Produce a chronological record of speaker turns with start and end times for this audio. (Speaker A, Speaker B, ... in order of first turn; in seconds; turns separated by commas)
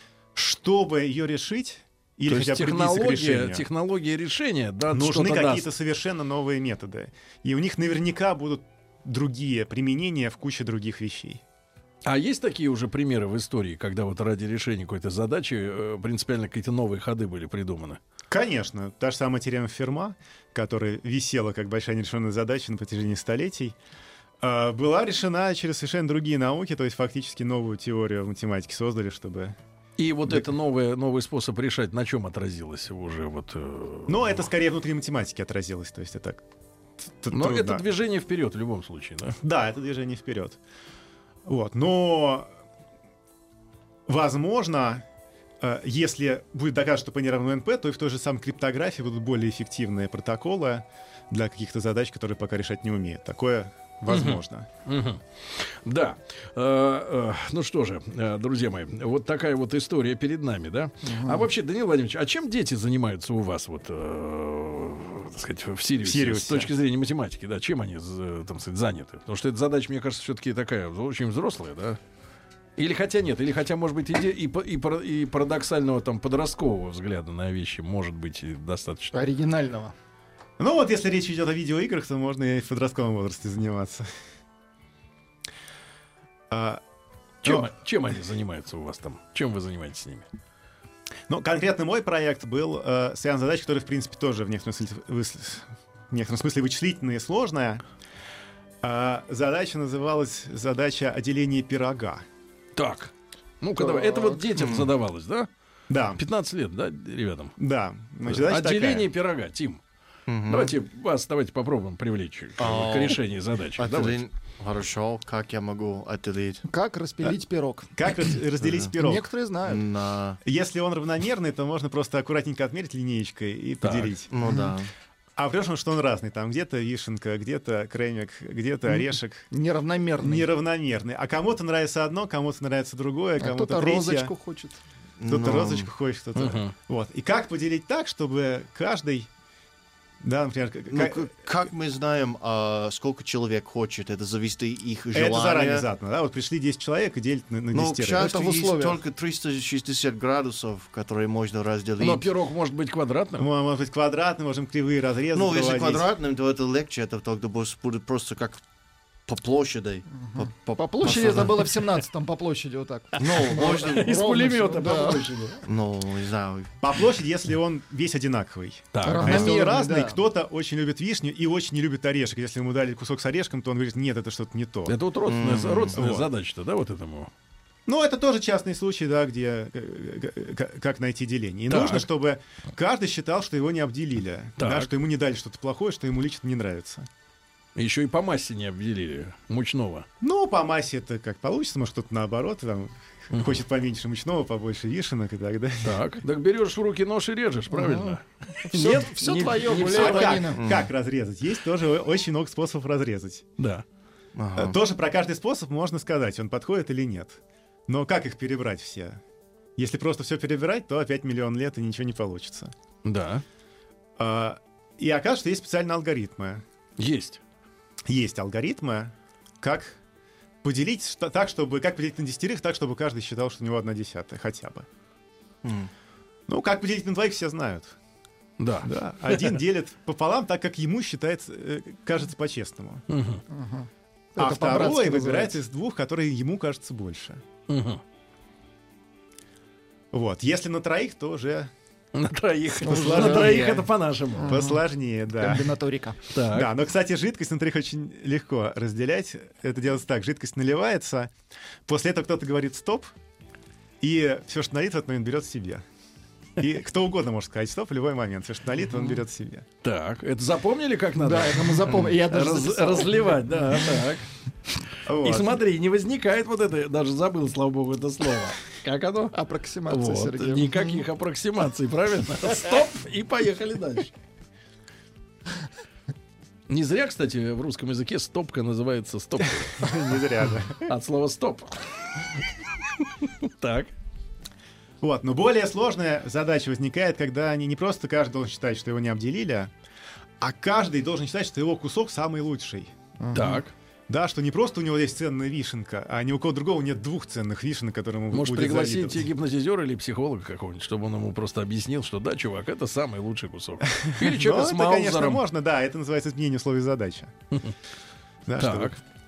Speaker A: 0.3-3.6, Speaker B: 2.3-5.7, Speaker A: 4.9-11.4, Speaker B: 12.1-18.0, Speaker A: 18.3-23.8, Speaker A: 24.4-29.6, Speaker B: 30.0-34.4, Speaker A: 34.1-36.4, Speaker A: 37.2-37.9, Speaker B: 37.3-39.4, Speaker A: 39.4-40.6, Speaker A: 41.5-42.5, Speaker A: 44.1-45.0, Speaker A: 45.6-54.7, Speaker B: 54.1-72.0, Speaker C: 61.0-61.5, Speaker A: 66.0-66.7, Speaker B: 72.8-79.1, Speaker C: 79.1-79.9, Speaker A: 80.6-84.0, Speaker A: 86.5-86.8, Speaker B: 87.4-90.3, Speaker A: 87.4-87.7, Speaker A: 91.3-97.8, Speaker A: 98.8-102.2, Speaker B: 102.8-105.5, Speaker C: 103.8-104.4, Speaker D: 104.5-104.9, Speaker A: 105.9-106.2, Speaker B: 106.1-107.5, Speaker A: 107.6-109.1, Speaker B: 108.2-109.8, Speaker D: 110.3-110.8, Speaker B: 110.5-114.2, Speaker D: 112.6-113.2, Speaker D: 113.8-116.6, Speaker C: 116.7-118.0, Speaker A: 118.0-119.3, Speaker C: 118.9-119.8, Speaker D: 119.6-120.4, Speaker A: 120.4-124.3, Speaker B: 123.8-124.1, Speaker D: 124.3-124.9, Speaker A: 125.4-129.5, Speaker C: 129.0-130.5, Speaker A: 130.2-134.3, Speaker C: 133.4-134.8, Speaker D: 135.2-135.9, Speaker A: 135.3-139.3, Speaker B: 136.3-136.7, Speaker A: 140.2-141.3, Speaker D: 140.9-145.8, Speaker A: 145.1-148.3, Speaker D: 147.7-152.3, Speaker C: 148.1-149.0, Speaker B: 152.0-153.5, Speaker A: 153.4-156.1, Speaker D: 155.3-158.6, Speaker D: 159.3-161.7, Speaker C: 160.2-165.3, Speaker D: 163.2-164.1, Speaker B: 163.2-165.6, Speaker D: 165.6-166.8, Speaker A: 166.8-175.0, Speaker B: 168.9-169.6, Speaker C: 169.0-170.2, Speaker B: 174.9-177.3, Speaker D: 175.2-176.0, Speaker A: 175.9-176.3, Speaker A: 177.9-187.1, Speaker B: 181.7-182.1, Speaker B: 184.6-184.9, Speaker B: 187.8-190.1, Speaker A: 190.2-196.1, Speaker B: 195.8-200.4, Speaker C: 197.7-200.6, Speaker A: 199.8-203.4, Speaker D: 200.6-200.8, Speaker B: 203.6-203.8, Speaker D: 204.3-204.8, Speaker A: 204.6-209.2, Speaker A: 209.8-212.7, Speaker B: 213.0-213.4, Speaker A: 214.2-216.6, Speaker B: 217.0-217.4, Speaker A: 218.1-220.0, Speaker A: 220.6-224.8, Speaker D: 225.6-225.9, Speaker A: 226.5-228.0, Speaker B: 228.6-229.6, Speaker A: 228.8-233.0, Speaker B: 233.1-233.4, Speaker C: 233.5-235.6, Speaker A: 234.4-237.4, Speaker B: 237.7-238.0, Speaker A: 240.1-241.7, Speaker B: 242.1-244.5, Speaker A: 242.8-243.8, Speaker C: 242.8-244.8, Speaker A: 244.4-245.7, Speaker C: 245.4-246.2, Speaker B: 246.3-246.7, Speaker A: 246.5-251.3, Speaker A: 251.9-253.1, Speaker A: 254.0-255.8, Speaker A: 256.6-259.6, Speaker B: 259.8-264.3, Speaker C: 261.2-263.8, Speaker A: 265.1-265.6, Speaker B: 265.2-269.4, Speaker C: 269.3-271.0, Speaker B: 269.9-274.1, Speaker B: 276.7-279.9, Speaker A: 279.7-280.9, Speaker B: 280.8-281.8, Speaker B: 283.0-283.9, Speaker A: 285.0-289.7, Speaker A: 290.4-292.9, Speaker C: 293.2-293.6, Speaker B: 293.3-293.7, Speaker A: 294.1-299.3, Speaker B: 298.3-305.4, Speaker A: 303.9-307.3, Speaker A: 308.4-309.0, Speaker B: 308.6-309.0